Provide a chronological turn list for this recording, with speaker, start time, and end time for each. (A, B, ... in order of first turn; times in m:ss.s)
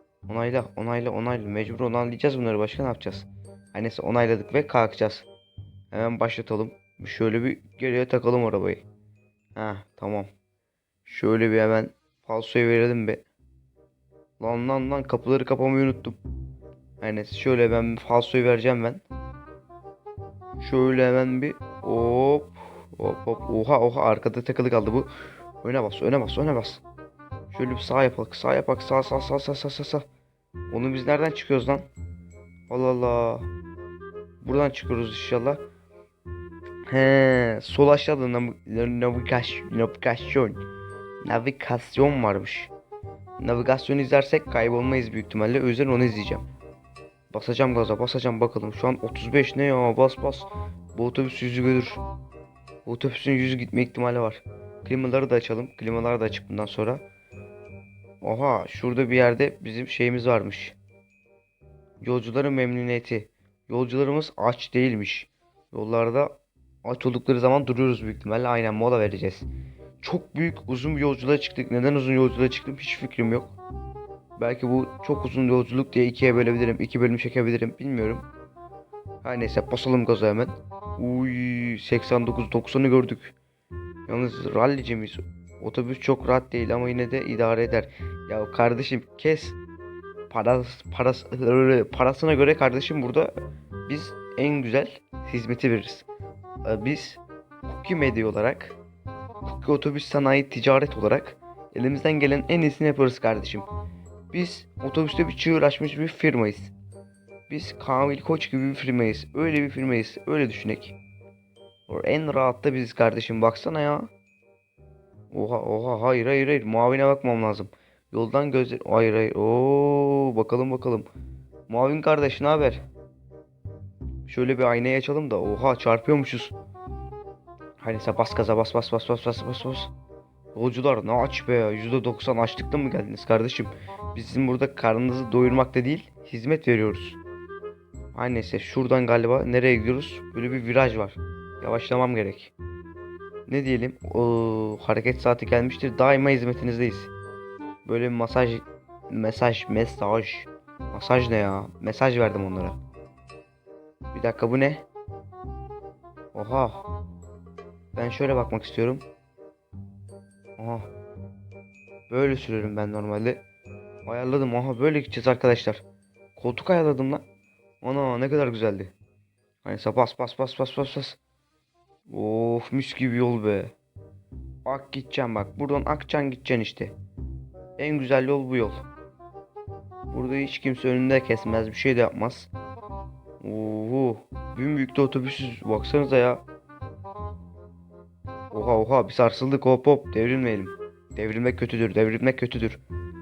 0:00.3-0:05.3 A
0:05.9-0:08.8 A
0:09.6-0:10.3 A
0:11.0-0:13.2 A
0:14.4-0:16.2 A
0:17.0-0:19.0 A
0:20.6-0:25.1 A
0:25.6-0:26.8 A
0:27.5-0:30.0 A
0:30.7-0:31.9 A
0:32.7-0:33.5 A
0:34.4-0:35.6 A
0:36.9-0:40.6 A
0:41.2-0:42.7 A
0:43.4-0:46.4 A
0:47.3-0:52.0 A
0:52.8-0:57.0 A
0:58.2-1:00.8 A
1:02.0-1:09.5 A
1:10.0-1:13.6 A
1:14.4-1:18.2 A
1:19.2-1:23.3 A
1:24.1-1:29.6 A
1:30.3-1:33.3 A
1:33.9-1:36.1 A
1:36.6-1:38.8 A
1:39.4-1:43.7 A
1:44.3-1:46.7 A
1:47.5-1:51.0 A
1:51.9-1:54.1 A
1:55.3-2:01.1 A
2:01.7-2:02.8 A
2:04.3-2:06.6 A
2:07.8-2:09.9 A
2:10.6-2:17.2 A
2:18.1-2:22.5 A
2:23.5-2:27.1 A
2:27.8-2:32.8 A
2:34.1-2:34.9 A
2:36.3-2:36.9 A
2:37.9-2:39.0 A
2:40.6-2:40.9 A
2:42.1-2:43.4 A
2:44.1-2:45.8 A
2:46.4-2:47.2 A
2:47.8-2:48.9 A
2:49.6-2:51.2 A
2:52.1-2:53.7 A
2:54.7-2:57.0 A
2:57.8-2:58.8 A
3:00.1-3:02.5 A
3:03.4-3:06.4 A
3:08.5-3:12.8 A